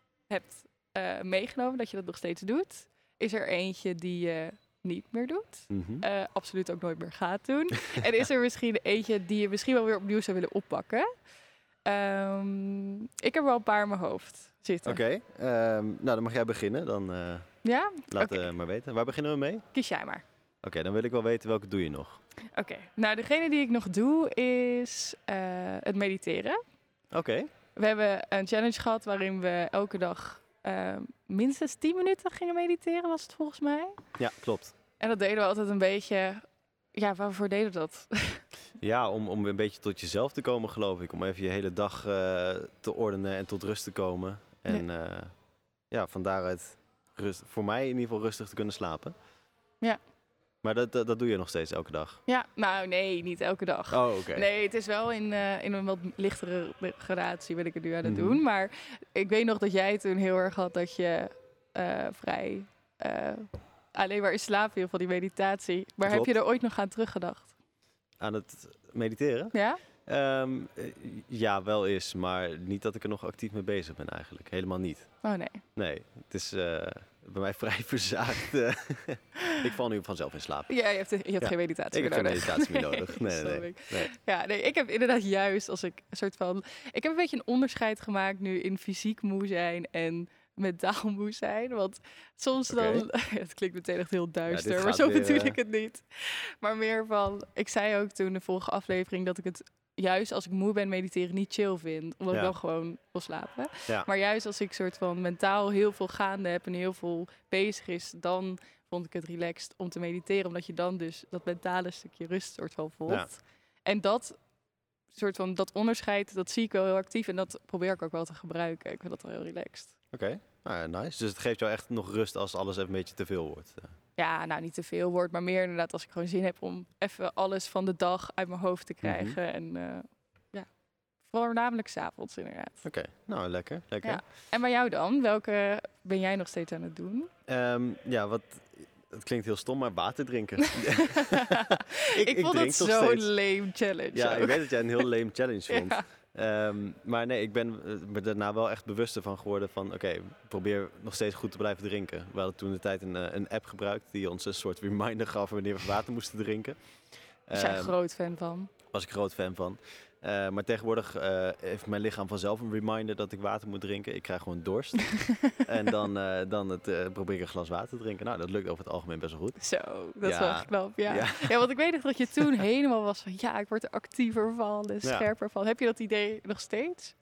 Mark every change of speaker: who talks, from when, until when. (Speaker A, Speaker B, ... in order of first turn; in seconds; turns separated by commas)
Speaker A: 0.3-11.1, Speaker B: 5.7-6.0, Speaker A: 11.9-15.0, Speaker B: 14.8-17.5, Speaker A: 17.6-18.5, Speaker B: 18.1-19.7, Speaker A: 19.7-20.2, Speaker B: 20.6-22.2, Speaker A: 22.5-26.6, Speaker B: 27.1-27.5, Speaker A: 27.8-34.0, Speaker B: 34.2-34.7, Speaker A: 35.0-38.5, Speaker B: 38.8-45.3, Speaker B: 45.9-49.1, Speaker B: 50.6-52.2, Speaker A: 52.3-67.5, Speaker B: 53.9-54.5, Speaker B: 58.0-58.4, Speaker B: 66.0-66.3, Speaker B: 68.2-69.5, Speaker A: 69.5-69.8, Speaker B: 70.1-75.1, Speaker A: 75.2-75.6, Speaker B: 75.8-80.7, Speaker A: 80.7-114.4, Speaker B: 81.4-84.1, Speaker B: 92.7-93.1, Speaker B: 94.5-95.6, Speaker A: 115.1-119.9, Speaker B: 120.1-123.9, Speaker A: 124.2-130.7, Speaker B: 129.0-129.4, Speaker A: 131.2-132.8, Speaker B: 132.8-134.2, Speaker A: 134.0-137.3, Speaker B: 137.5-143.3, Speaker A: 140.6-145.1, Speaker B: 144.1-156.8, Speaker A: 145.7-146.0, Speaker B: 157.5-157.9, Speaker A: 157.5-158.7, Speaker B: 158.9-169.6, Speaker A: 165.1-165.6, Speaker A: 169.6-177.1, Speaker B: 170.2-171.6